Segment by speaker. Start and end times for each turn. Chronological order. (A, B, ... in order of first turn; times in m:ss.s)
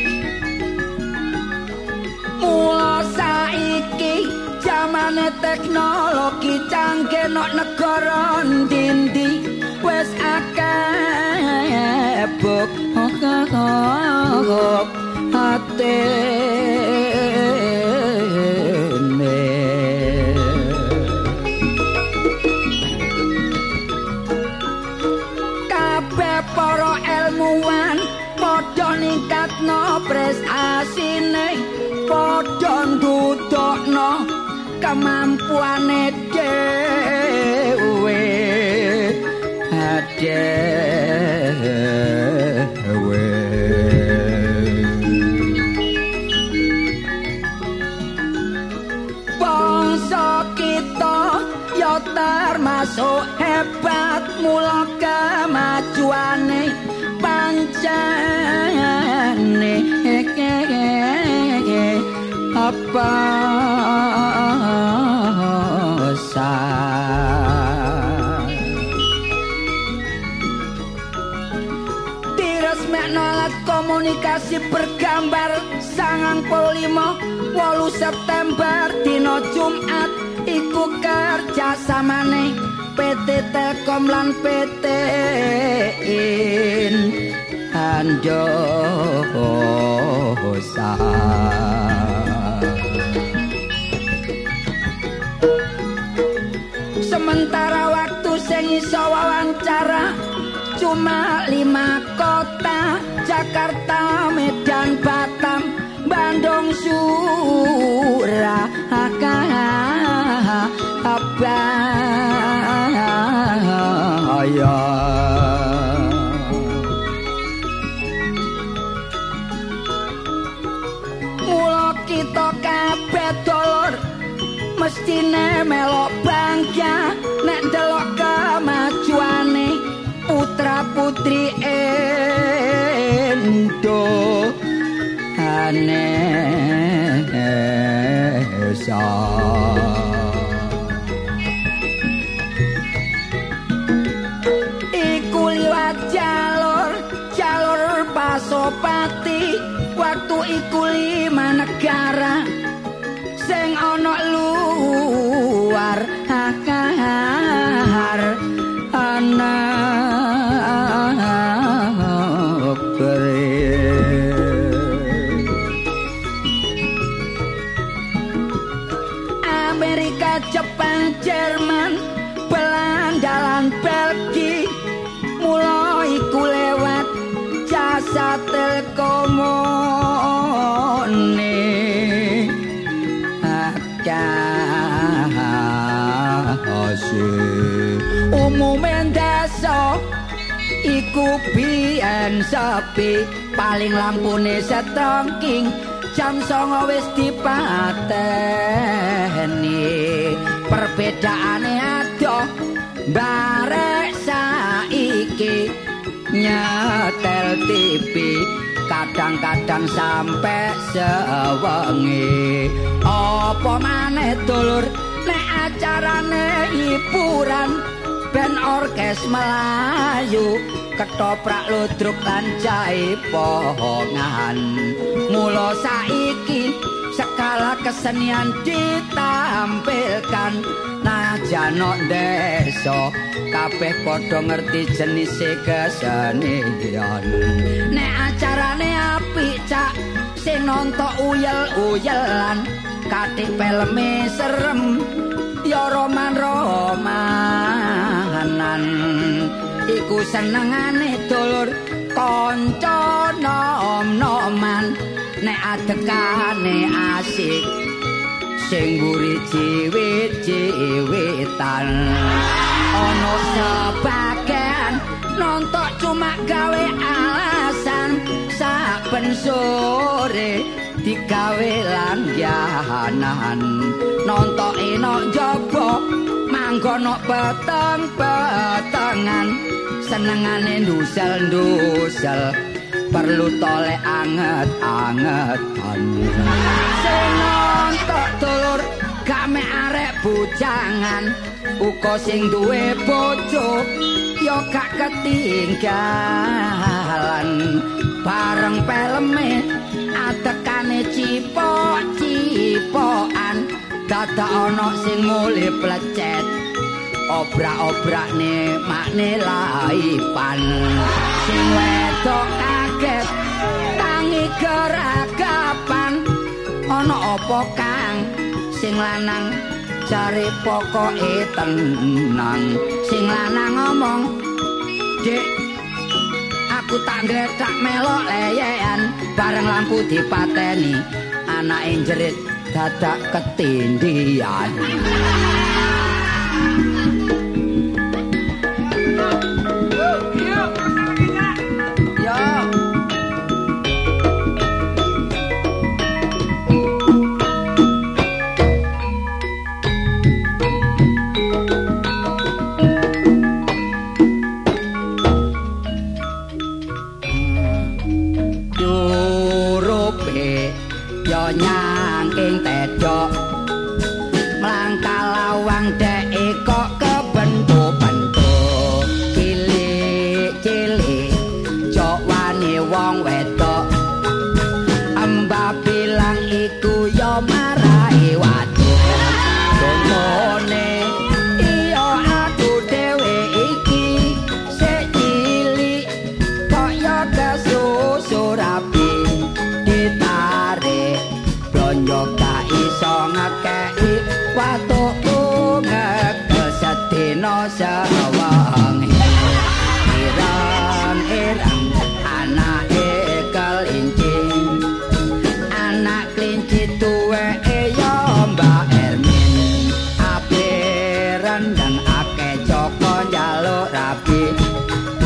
0:02.4-0:21.4 A
0:25.7-0:45.7 A
0:49.4-1:08.9 A
1:12.3-1:27.2 A
1:27.7-1:33.2 A
1:37.0-1:40.1 A
1:40.8-1:56.9 A
2:01.4-2:04.0 A
2:04.8-2:14.6 A
2:15.4-2:21.0 A
2:24.9-2:32.5 A
2:33.4-2:45.6 A
2:49.4-2:54.8 A
2:55.4-3:02.6 A
3:03.4-3:10.0 A
3:10.8-3:22.5 A
3:23.1-3:25.7 A
3:26.3-4:05.1 A
4:05.6-4:17.8 A
4:18.6-4:42.6 A
4:43.1-5:06.5 A
5:07.3-5:13.3 A
5:13.9-5:16.2 A
5:16.9-5:24.3 A
5:25.2-5:25.6 A
5:26.7-5:35.2 A
5:42.2-5:42.8 A
5:58.7-6:03.3 A
6:04.6-6:13.9 A
6:15.2-6:26.1 A
6:26.6-6:44.9 A
6:45.7-6:54.5 A